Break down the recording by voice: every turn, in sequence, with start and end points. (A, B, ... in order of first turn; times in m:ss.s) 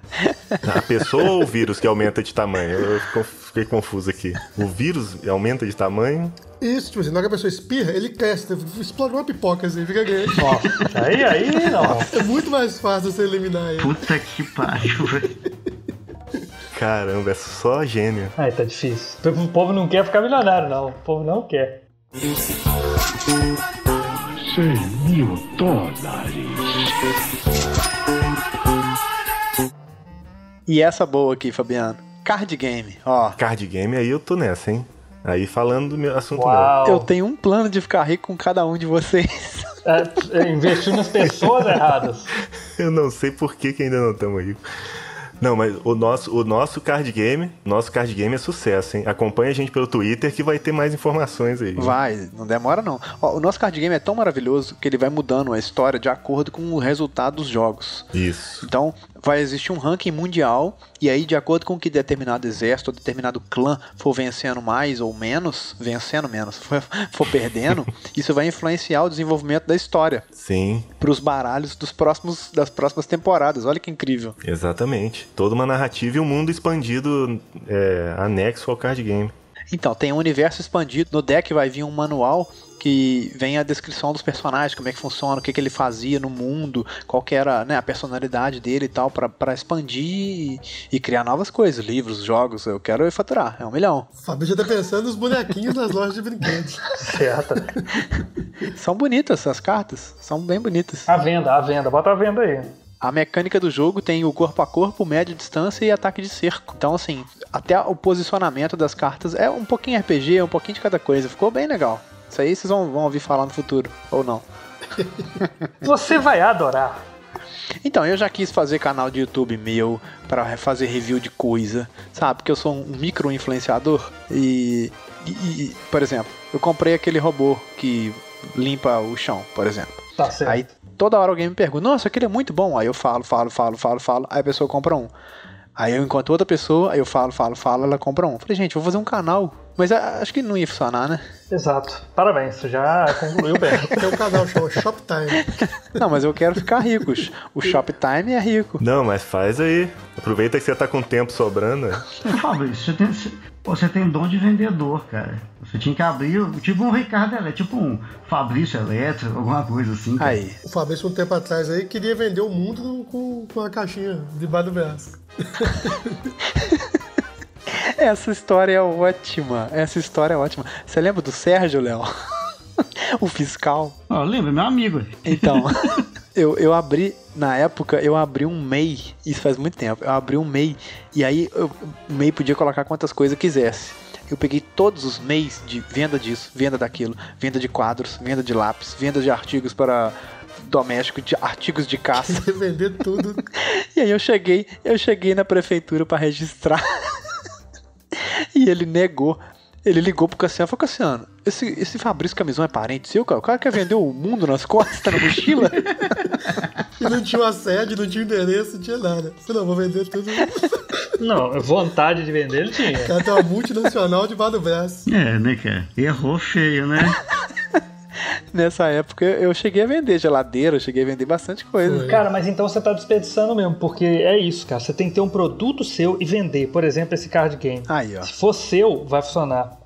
0:00.6-0:06.4 A
0:06.6-0:10.9 B
0:10.4-0:12.1 C
0:11.8-0:14.1 B
0:13.8-0:15.3 D
0:14.7-0:15.2 B
0:16.7-0:18.3 A
0:18.4-0:21.8 C
0:24.3-0:26.9 E
0:30.7-0:33.4 F
0:33.4-0:36.7 A
0:36.3-0:37.1 C
0:36.8-0:39.8 F
0:39.8-0:42.3 C
0:42.8-0:44.6 A
0:45.4-0:52.0 A
0:51.8-0:58.1 F
0:58.1-0:58.7 A
0:58.6-1:10.3 F
1:10.3-1:10.9 A
1:11.0-1:14.4 F
1:14.4-1:19.3 A
1:19.7-1:34.1 F
1:34.2-1:37.2 B
1:36.9-1:37.8 C
1:38.6-1:41.1 F
1:41.1-1:42.7 C
1:43.0-1:54.4 F
1:55.0-1:55.3 B
1:55.8-1:57.0 C
1:57.8-2:15.1 F
2:10.2-2:10.6 C
2:15.8-2:21.2 F
2:21.5-2:24.1 C
2:23.8-2:25.5 B
2:25.9-2:28.8 F
2:28.8-2:32.1 A
2:32.2-2:40.4 D
2:40.2-2:40.6 F
2:40.6-2:46.3 B
2:47.7-2:52.1 F
2:53.0-2:54.0 F
2:54.1-2:55.8 D
2:55.2-3:12.4 F
3:12.1-3:13.5 B
3:13.5-3:17.2 F
3:18.1-3:25.9 F
3:27.0-3:30.9 B
3:31.2-3:33.1 C
3:33.0-3:35.1 B
3:35.1-3:37.2 D
3:38.5-3:42.1 F
3:41.8-3:42.2 B
3:42.0-3:49.8 C
3:47.9-3:48.3 F